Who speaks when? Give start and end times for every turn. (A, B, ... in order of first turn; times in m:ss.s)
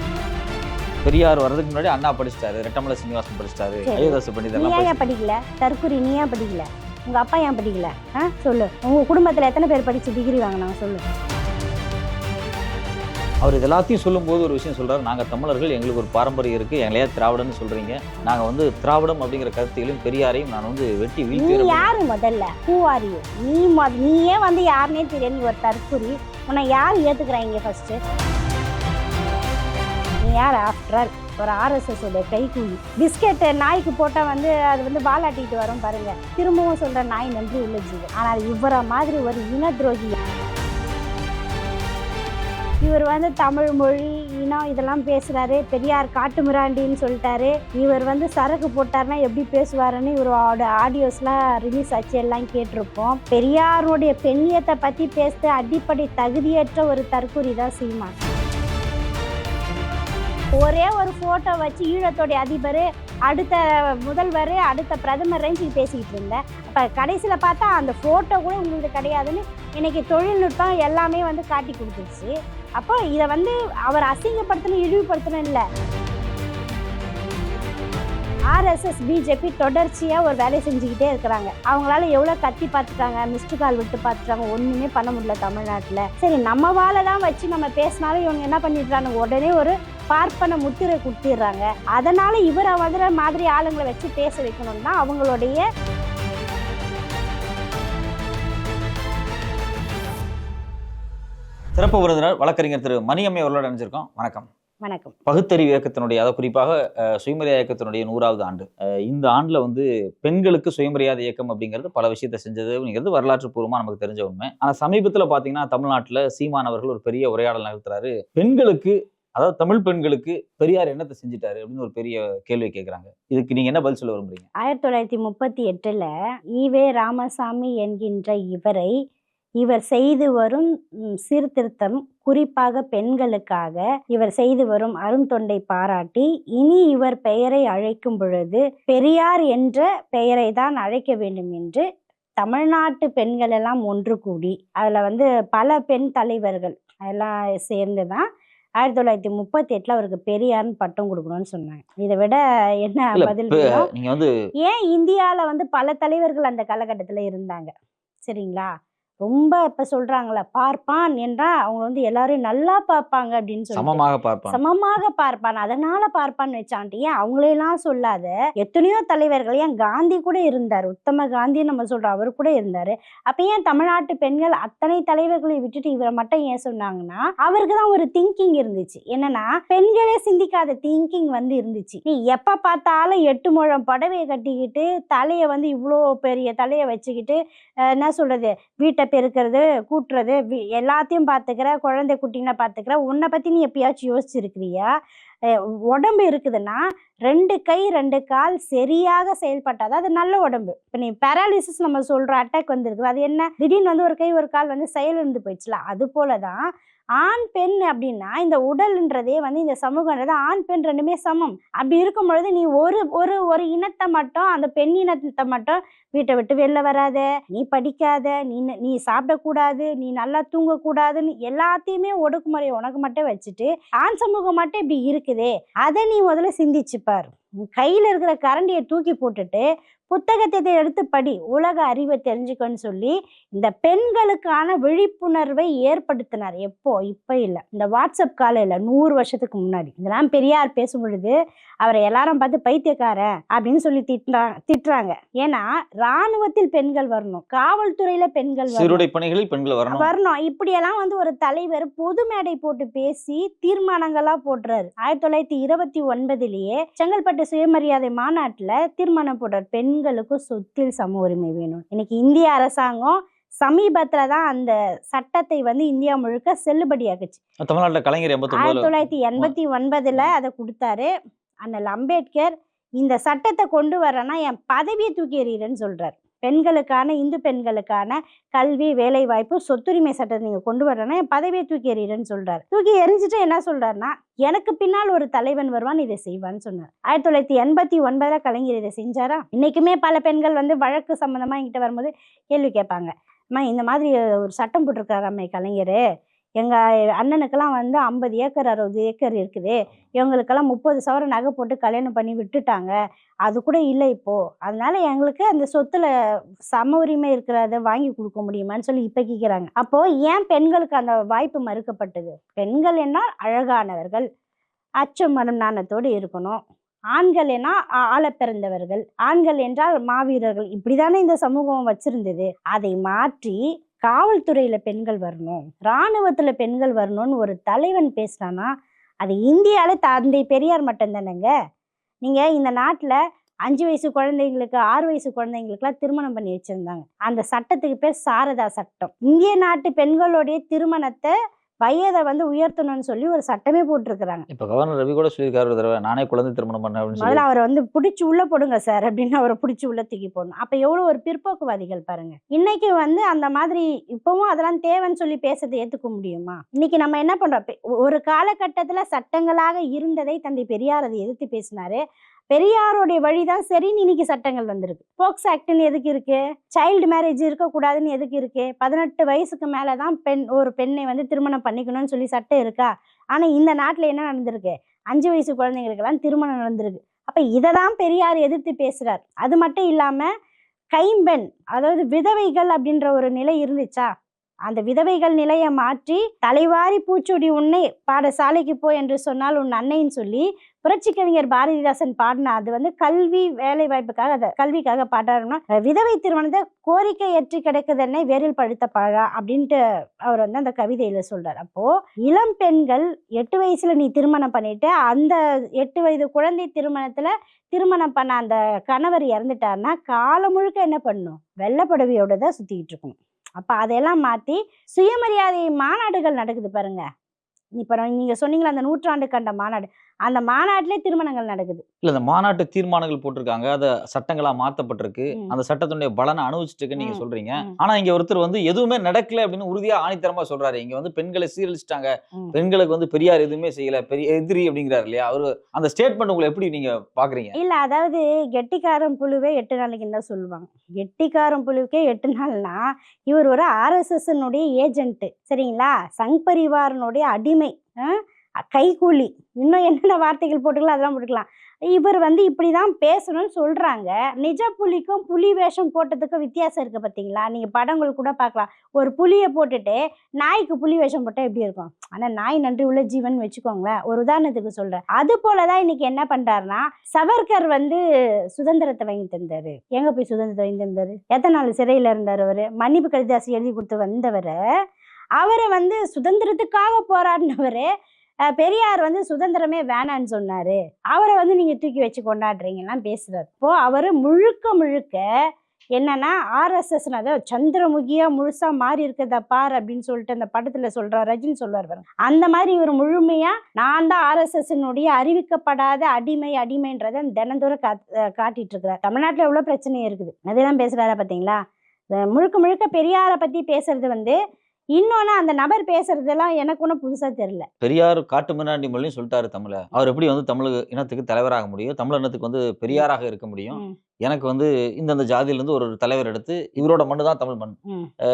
0:01.0-0:05.0 A
0:03.8-0:11.0 B
0:13.4-0:21.9 A
0:21.3-0:28.0 B
0:30.2-0:40.2 B
0:42.8-0:58.1 B
1:00.5-1:15.6 B
1:18.5-1:35.6 B
1:41.8-1:44.5 A
1:44.8-1:45.2 B
1:45.2-2:04.4 A
2:04.6-2:08.9 B
2:09.6-2:21.8 B
2:22.4-2:28.2 B
2:28.8-2:33.9 B
2:33.2-2:34.3 A
2:34.6-2:37.7 B
2:38.2-2:38.7 B
2:39.2-3:07.4 B
2:43.7-2:44.6 A
3:07.9-3:14.9 B
3:15.5-3:26.6 B
3:27.2-4:09.0 B
4:08.7-4:10.1 A
4:09.9-4:27.4 B
4:27.6-4:29.5 A
4:28.5-4:31.1 B
4:31.6-4:56.0 B
4:56.6-5:02.9 B
5:03.4-5:06.1 B
5:06.7-5:14.3 B
5:15.0-5:16.6 B
5:17.1-5:31.5 B
5:32.2-5:44.4 B
5:44.5-5:47.4 A
5:47.2-6:20.3 B
6:20.9-6:24.1 B
6:24.7-6:57.0 B
6:57.8-7:01.8 B
7:02.0-7:17.5 A
7:07.0-7:07.7 B
7:17.6-7:48.0 B
7:48.6-7:54.6 B
7:55.4-7:57.9 B
7:58.5-8:05.2 B
8:06.0-8:21.6 B
8:22.1-8:24.4 B
8:24.9-8:27.7 B
8:27.8-8:37.8 A